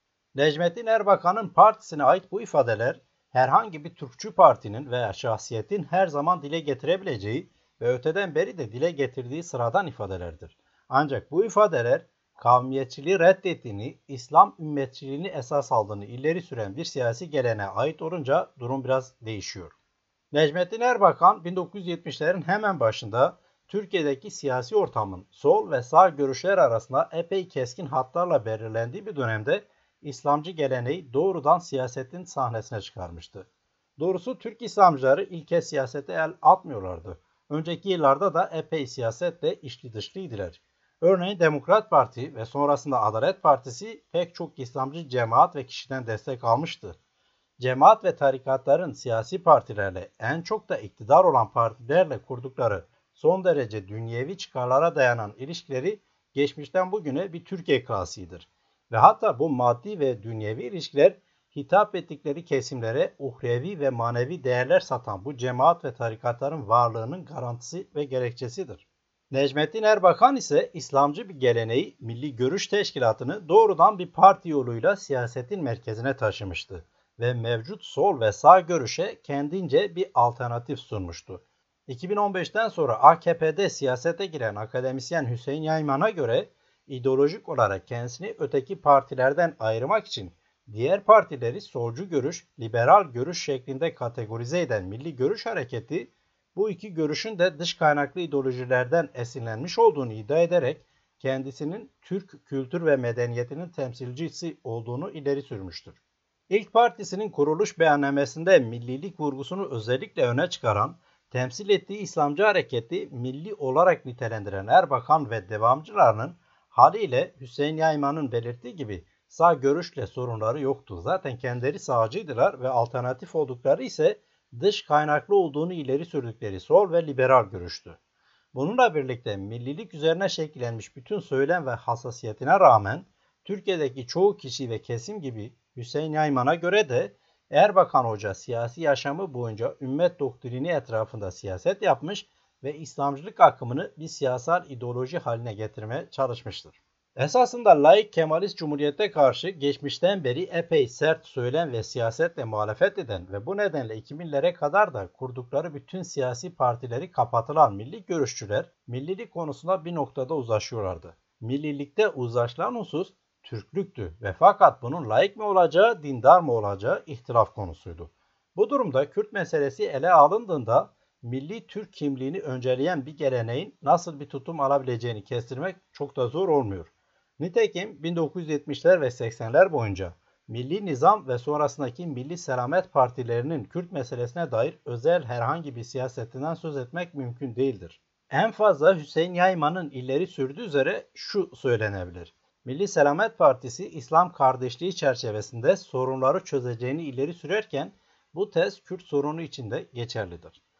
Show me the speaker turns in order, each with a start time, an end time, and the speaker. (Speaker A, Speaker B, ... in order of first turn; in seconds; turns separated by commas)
Speaker A: 0.3-19.8, Speaker A: 20.3-33.5, Speaker A: 34.0-47.0, Speaker A: 47.6-106.0, Speaker A: 106.5-128.0, Speaker A: 128.5-200.6